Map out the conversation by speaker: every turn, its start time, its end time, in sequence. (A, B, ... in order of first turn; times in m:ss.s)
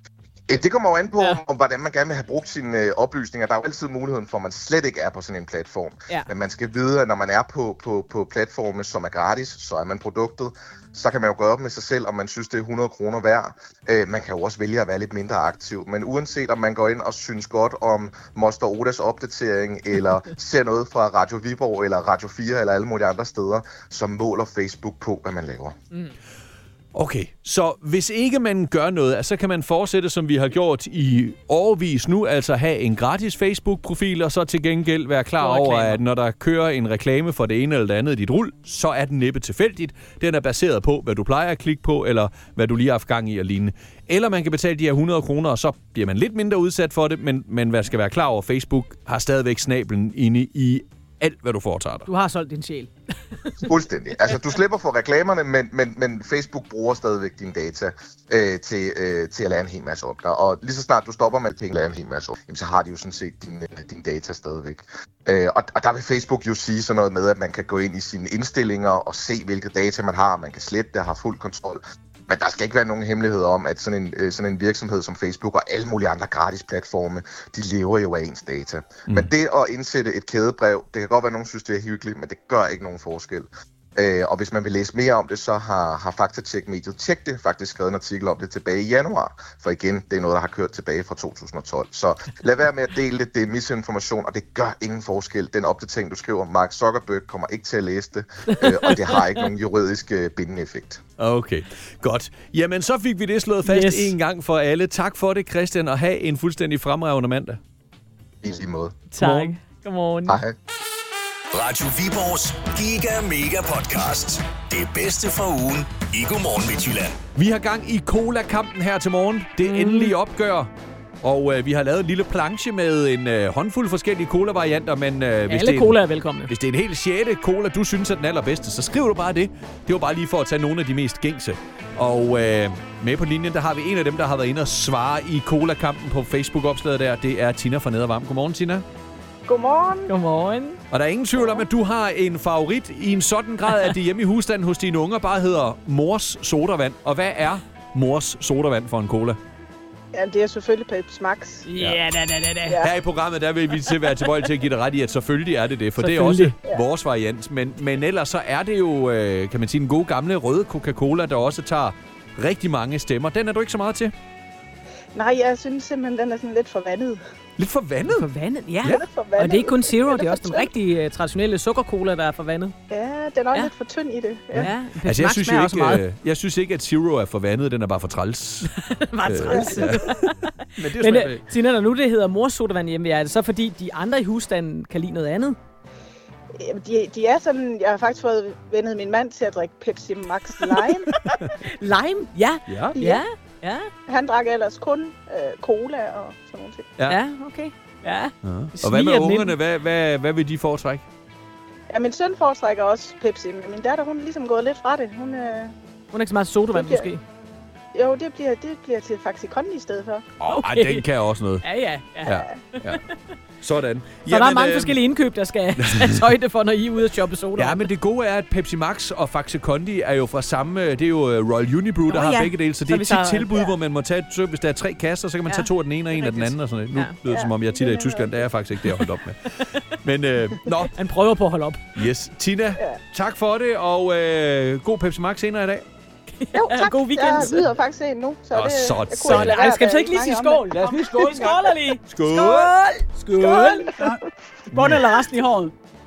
0:00.5-0:25.8 A
0:26.9-0:52.1 B
0:35.4-0:36.0 C
0:52.1-0:52.9 C
0:53.6-1:41.0 A
1:38.5-1:39.0 C
1:41.2-1:47.6 B
1:43.7-1:44.1 C
1:48.4-1:49.0 A
1:49.1-1:50.4 C
1:49.2-1:49.5 B
1:50.3-1:50.6 A
1:51.5-1:57.2 D
1:57.4-2:00.7 B
1:59.6-2:00.1 C
2:01.2-2:18.8 B
2:05.5-2:06.5 C
2:19.5-2:20.1 E
2:20.1-2:20.8 C
2:20.9-2:29.4 B
2:30.1-2:31.7 E
2:31.7-2:32.8 C
2:32.8-2:44.1 B
2:36.0-2:36.6 C
2:45.2-2:47.2 E
2:47.6-2:48.3 B
2:48.1-2:52.8 C
2:48.9-2:50.7 E
2:52.9-2:54.7 E
2:54.5-2:56.0 C
2:54.6-2:58.7 B
2:58.8-3:05.6 C
2:59.3-3:00.1 B
2:59.5-2:59.9 E
3:00.8-3:01.4 B
3:06.6-3:11.1 E
3:11.3-3:13.9 C
3:12.7-3:13.0 B
3:13.0-3:13.2 E
3:14.1-3:16.9 E
3:17.1-3:19.5 C
3:18.4-3:21.0 B
3:21.9-3:25.7 E
3:26.1-3:27.2 C
3:26.7-3:27.1 E
3:27.9-3:30.2 E
3:30.4-3:31.6 B
3:30.5-3:31.1 C
3:31.6-3:32.4 C
3:32.3-3:33.0 B
3:33.6-3:35.0 B
3:34.3-3:37.8 C
3:35.8-3:36.2 B
3:37.6-3:50.9 B
3:42.1-3:43.7 C
3:45.5-3:47.1 C
3:47.2-3:48.5 E
3:50.9-3:51.8 C
3:52.0-3:55.9 B
3:56.4-3:57.6 C
3:56.5-4:01.6 E
3:58.5-3:59.6 B
3:59.2-4:04.2 C
4:00.7-4:02.7 B
4:03.4-4:04.2 E
4:04.7-4:05.7 C
4:04.7-4:05.0 B